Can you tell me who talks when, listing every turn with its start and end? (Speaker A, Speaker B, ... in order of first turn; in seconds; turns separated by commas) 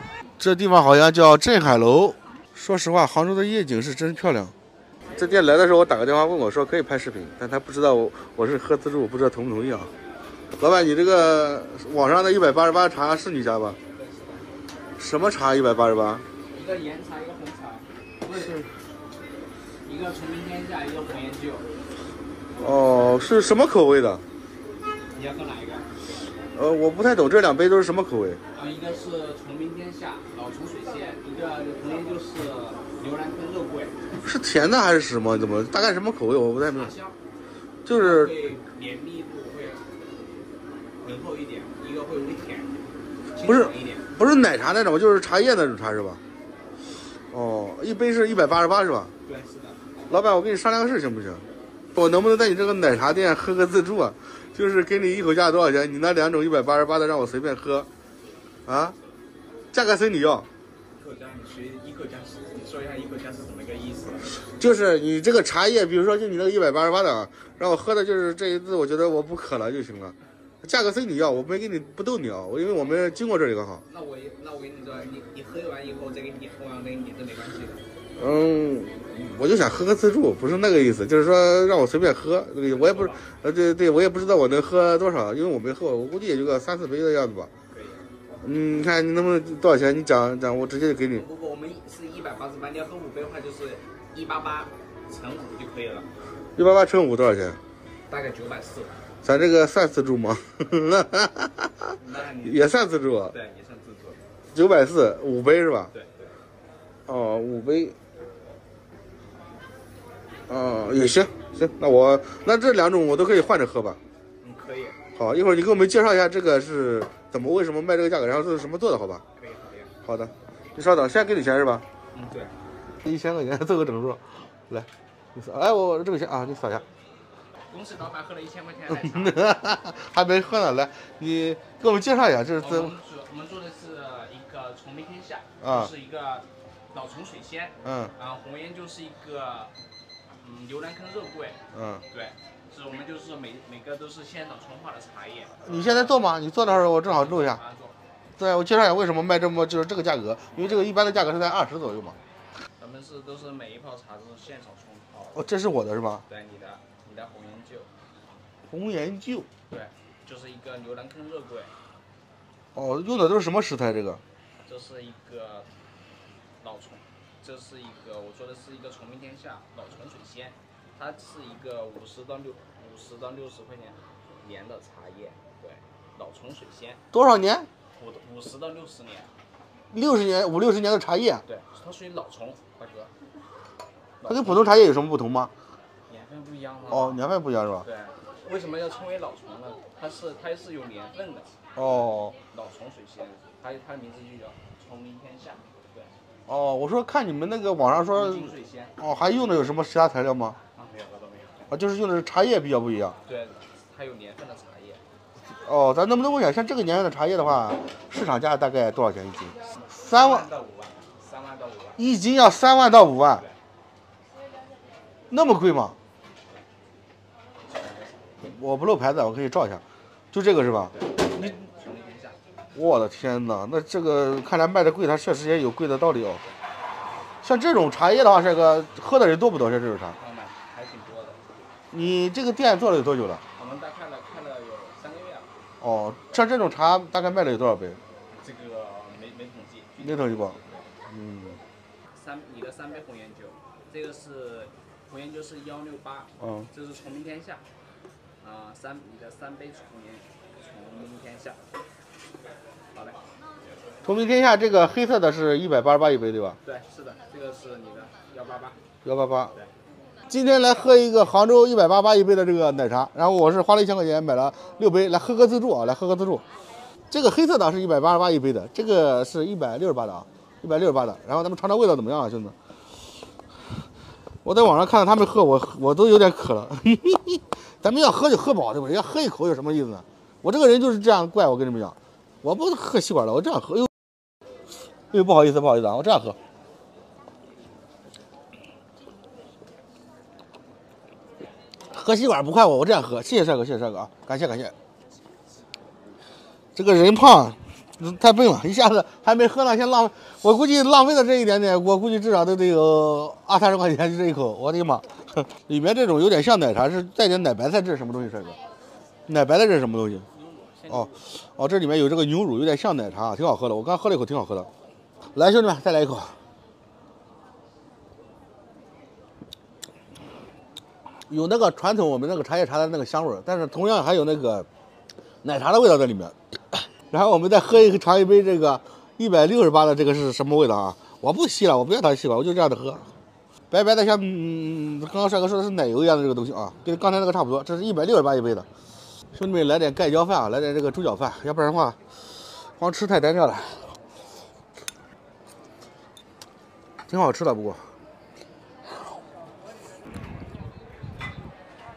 Speaker A: 0.4-4.5, Speaker A: 5.2-9.9, Speaker A: 10.6-13.8, Speaker B: 13.9-14.6, Speaker A: 15.0-16.2, Speaker B: 16.5-18.6, Speaker A: 18.3-18.7, Speaker B: 19.8-21.7, Speaker A: 22.6-24.2, Speaker B: 25.1-25.9, Speaker A: 26.6-28.4, Speaker B: 28.5-34.1, Speaker A: 34.2-36.9, Speaker B: 36.6-37.2, Speaker A: 37.9-38.3, Speaker B: 37.9-39.9, Speaker B: 41.0-44.1, Speaker A: 43.5-46.2, Speaker A: 47.3-49.1, Speaker B: 49.2-49.8, Speaker A: 50.1-51.4, Speaker A: 52.0-57.9, Speaker A: 58.7-59.0, Speaker A: 59.7-60.5, Speaker B: 61.0-64.6, Speaker A: 64.5-73.8, Speaker B: 73.9-77.8, Speaker A: 78.2-87.5, Speaker B: 82.7-83.3, Speaker B: 87.7-88.1, Speaker A: 88.4-91.2, Speaker B: 91.1-96.1, Speaker A: 96.6-97.6, Speaker B: 98.1-99.0, Speaker A: 99.2-101.9, Speaker B: 102.0-102.7, Speaker A: 102.4-103.3, Speaker B: 103.3-104.2, Speaker A: 104.5-105.9, Speaker B: 105.9-106.4, Speaker A: 107.1-108.0, Speaker A: 110.5-114.0, Speaker B: 114.4-115.0, Speaker A: 115.2-119.2, Speaker B: 119.3-119.9, Speaker A: 120.0-121.8, Speaker B: 122.1-122.5, Speaker A: 123.0-126.8, Speaker B: 127.7-129.7, Speaker A: 128.9-132.9, Speaker B: 132.6-139.7, Speaker A: 135.6-135.9, Speaker A: 137.8-138.1, Speaker B: 140.4-148.0, Speaker A: 141.7-142.0, Speaker A: 145.6-147.6, Speaker A: 148.4-152.2, Speaker B: 150.5-150.9, Speaker B: 152.8-155.4, Speaker A: 155.3-156.2, Speaker B: 156.3-157.9, Speaker A: 158.7-159.5, Speaker B: 159.7-161.7, Speaker A: 162.8-164.2, Speaker B: 164.7-165.7, Speaker B: 166.6-177.0, Speaker A: 177.1-177.7, Speaker B: 178.0-179.3, Speaker A: 179.9-181.4, Speaker B: 181.5-183.1, Speaker B: 184.2-184.8, Speaker A: 184.3-185.5, Speaker B: 186.1-187.2, Speaker A: 186.9-187.9, Speaker B: 187.8-191.5, Speaker A: 191.8-192.3, Speaker B: 192.4-196.1, Speaker A: 196.5-200.6, Speaker B: 198.1-199.0, Speaker B: 200.7-201.7, Speaker A: 201.7-203.2, Speaker B: 203.2-205.0, Speaker A: 205.6-210.5, Speaker B: 209.7-212.0, Speaker A: 212.0-213.4, Speaker A: 215.3-215.9, Speaker B: 217.7-218.3, Speaker A: 218.4-221.6, Speaker B: 220.9-222.4, Speaker A: 222.8-226.4, Speaker A: 227.4-230.2, Speaker B: 230.2-231.4, Speaker A: 231.9-233.4, Speaker B: 233.6-235.5, Speaker A: 235.8-238.0, Speaker B: 238.3-240.9, Speaker A: 240.0-240.6, Speaker A: 241.1-241.6, Speaker B: 242.1-247.6, Speaker A: 246.4-246.7, Speaker B: 248.4-251.6, Speaker B: 252.9-253.2, Speaker A: 254.0-256.6, Speaker B: 256.6-258.8, Speaker A: 259.1-259.5, Speaker A: 260.3-266.4, Speaker A: 267.1-272.6, Speaker A: 274.4-283.9, Speaker A: 285.1-286.4, Speaker A: 291.9-294.7, Speaker A: 296.8-308.6, Speaker A: 309.3-310.3, Speaker B: 310.4-311.3, Speaker A: 310.9-314.7, Speaker A: 315.3-316.4, Speaker A: 321.3-324.7, Speaker A: 325.4-333.1, Speaker A: 333.7-338.7, Speaker A: 339.3-343.9, Speaker A: 347.1-347.9